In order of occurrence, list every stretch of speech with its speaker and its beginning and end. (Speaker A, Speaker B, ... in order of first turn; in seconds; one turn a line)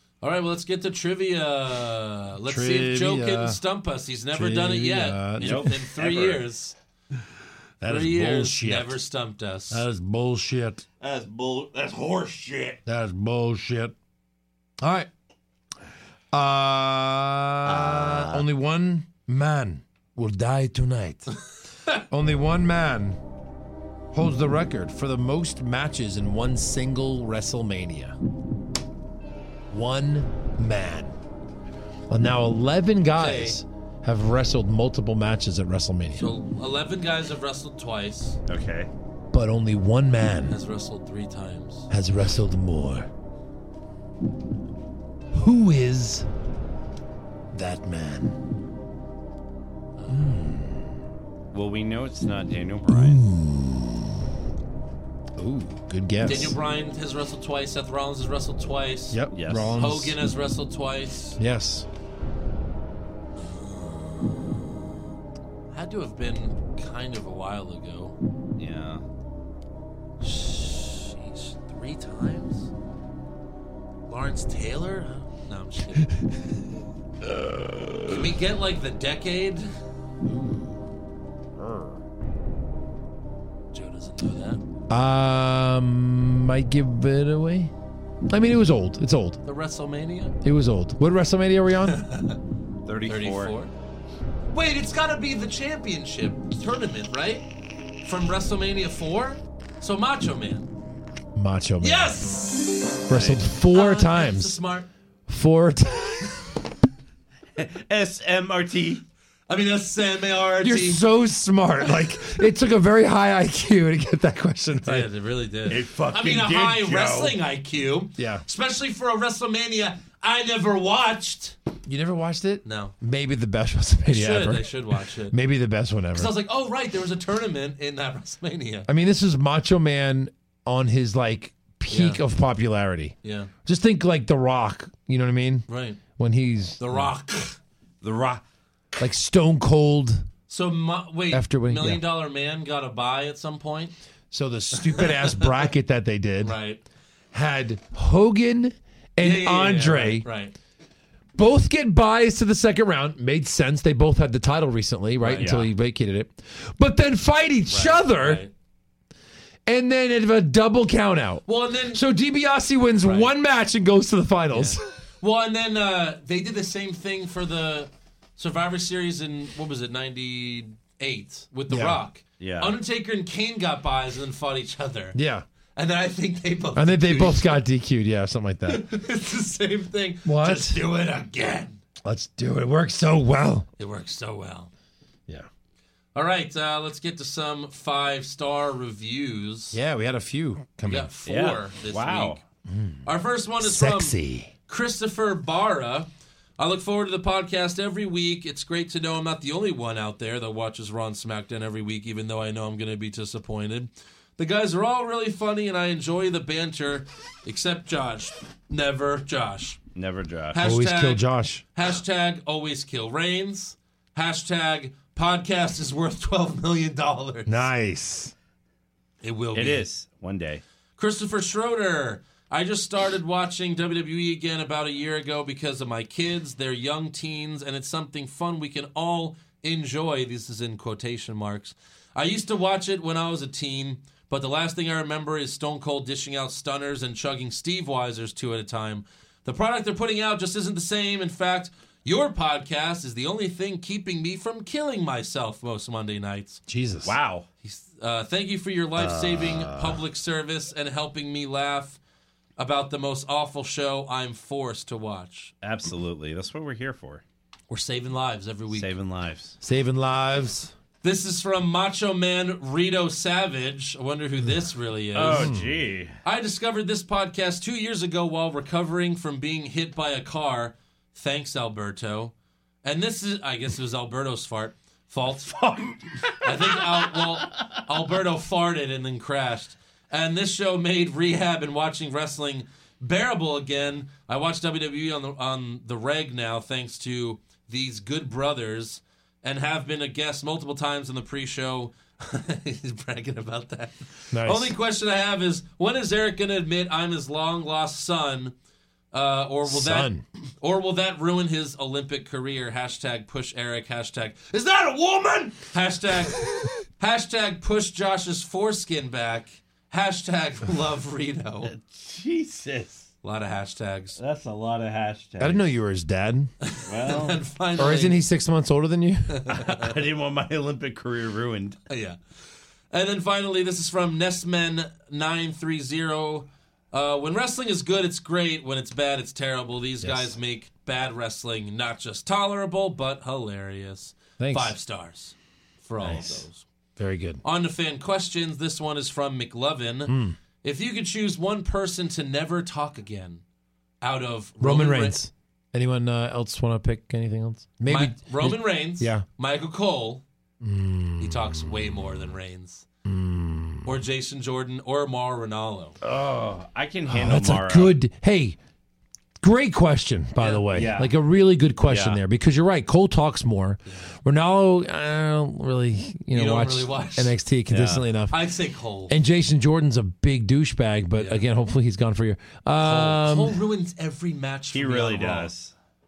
Speaker A: 0.2-6.8
Speaker B: 2.5-3.6
Speaker B: 4.3-5.8
Speaker C: 5.4-6.5
Speaker B: 7.8-9.0
Speaker A: 7.8-9.8
Speaker B: 9.7-10.8
Speaker C: 11.0-12.8
Speaker B: 12.9-13.9
Speaker B: 14.8-15.1
Speaker B: 16.3-21.3
Speaker C: 17.6-18.4
Speaker B: 22.1-23.2
Speaker B: 24.1-28.2
Speaker B: 29.7-31.1
Speaker B: 32.1-36.3
Speaker A: 33.2-33.6
Speaker A: 36.1-38.4
Speaker C: 38.5-38.9
Speaker B: 39.3-40.6
Speaker A: 40.5-41.9
Speaker B: 41.9-43.1
Speaker B: 45.3-46.3
Speaker B: 47.5-48.5
Speaker A: 50.0-50.5
Speaker B: 50.1-50.9
Speaker C: 51.5-53.2
Speaker B: 52.9-54.3
Speaker B: 55.4-56.6
Speaker A: 56.3-59.2
Speaker B: 59.1-60.2
Speaker C: 59.3-59.8
Speaker A: 59.8-61.4
Speaker B: 61.4-61.9
Speaker A: 63.4-64.7
Speaker A: 65.7-68.2
Speaker C: 68.6-69.0
Speaker A: 70.2-72.7
Speaker A: 74.1-76.4
Speaker A: 78.1-79.7
Speaker B: 80.2-80.8
Speaker A: 83.7-84.6
Speaker B: 84.9-87.7
Speaker B: 88.3-89.4
Speaker A: 89.5-90.4
Speaker B: 90.4-92.0
Speaker A: 91.9-92.4
Speaker C: 92.8-93.5
Speaker A: 93.1-93.7
Speaker A: 94.5-97.5
Speaker A: 98.0-100.7
Speaker B: 101.3-102.3
Speaker A: 101.8-103.0
Speaker B: 103.1-104.6
Speaker C: 103.1-103.4
Speaker A: 103.7-104.9
Speaker B: 105.3-106.4
Speaker C: 107.6-109.0
Speaker A: 109.5-111.0
Speaker B: 110.6-115.1
Speaker A: 114.8-121.6
Speaker C: 115.7-117.4
Speaker B: 118.2-118.4
Speaker B: 121.9-126.3
Speaker A: 122.7-122.9
Speaker A: 124.1-125.4
Speaker A: 126.1-128.9
Speaker B: 128.9-137.1
Speaker A: 131.9-132.2
Speaker A: 133.2-133.5
Speaker A: 135.7-136.0
Speaker A: 136.8-137.6
Speaker C: 138.0-138.4
Speaker B: 139.0-140.3
Speaker A: 140.5-143.9
Speaker B: 141.3-142.0
Speaker B: 144.3-146.6
Speaker A: 144.8-145.7
Speaker A: 146.4-146.8
Speaker B: 147.3-150.3
Speaker A: 149.2-150.5
Speaker B: 151.3-158.4
Speaker A: 155.2-155.6
Speaker C: 155.4-155.7
Speaker A: 157.7-158.5
Speaker B: 159.7-164.8
Speaker A: 161.5-162.0
Speaker A: 163.0-163.3
Speaker A: 164.5-175.2
Speaker B: 171.7-172.0
Speaker C: 172.4-172.8
Speaker B: 175.2-175.4
Speaker A: 175.8-177.6
Speaker B: 176.8-178.9
Speaker A: 178.7-181.8
Speaker B: 180.2-180.8
Speaker B: 182.0-183.7
Speaker A: 183.8-184.7
Speaker A: 186.2-189.8
Speaker B: 189.7-191.1
Speaker A: 190.9-192.4
Speaker C: 191.3-192.4
Speaker B: 192.7-193.1
Speaker A: 193.1-196.1
Speaker B: 193.6-194.5
Speaker A: 196.6-209.8
Speaker C: 209.9-210.6
Speaker A: 210.5-217.7
Speaker B: 210.6-211.7
Speaker B: 217.5-218.3
Speaker A: 219.2-219.9
Speaker C: 219.6-220.6
Speaker A: 221.0-246.6
Speaker B: 246.7-247.2
Speaker C: 247.0-247.5
Speaker A: 247.6-252.0
Speaker C: 249.0-250.0
Speaker A: 252.6-255.5
Speaker C: 255.6-257.2
Speaker A: 257.7-258.9
Speaker C: 258.7-259.6
Speaker B: 259.6-260.7
Speaker A: 261.0-265.5
Speaker C: 265.1-266.2
Speaker B: 265.3-265.8
Speaker A: 266.2-272.3
Speaker A: 272.8-298.5
Speaker B: 294.3-294.8
Speaker A: 299.1-311.7
Speaker B: 299.7-300.2
Speaker C: 311.7-313.1
Speaker A: 313.2-314.2
Speaker C: 314.2-315.6
Speaker B: 315.4-316.5
Speaker A: 316.6-318.2
Speaker C: 316.9-317.4
Speaker B: 317.8-319.4
Speaker A: 319.3-319.9
Speaker C: 319.6-321.8
Speaker A: 321.9-322.2
Speaker A: 322.9-336.7
Speaker B: 330.0-330.4
Speaker B: 334.4-334.8
Speaker C: 336.0-336.4
Speaker B: 337.0-337.4
Speaker A: 337.4-343.4
Speaker B: 340.1-340.4
Speaker A: 344.0-345.2
Speaker B: 344.6-349.2
Speaker A: 347.9-350.2
Speaker B: 350.6-352.0
Speaker A: 351.2-352.9
Speaker B: 353.1-354.0
Speaker A: 353.9-356.0
Speaker C: 356.0-358.0
Speaker B: 357.1-358.6
Speaker B: 359.4-368.4
Speaker A: 360.4-360.7
Speaker C: 360.7-361.1
Speaker C: 361.9-362.2
Speaker A: 363.9-364.1
Speaker A: 366.3-367.4
Speaker C: 367.7-368.1
Speaker A: 368.3-369.2
Speaker B: 369.1-373.6
Speaker A: 371.2-371.4
Speaker A: 372.8-375.5
Speaker C: 374.7-375.7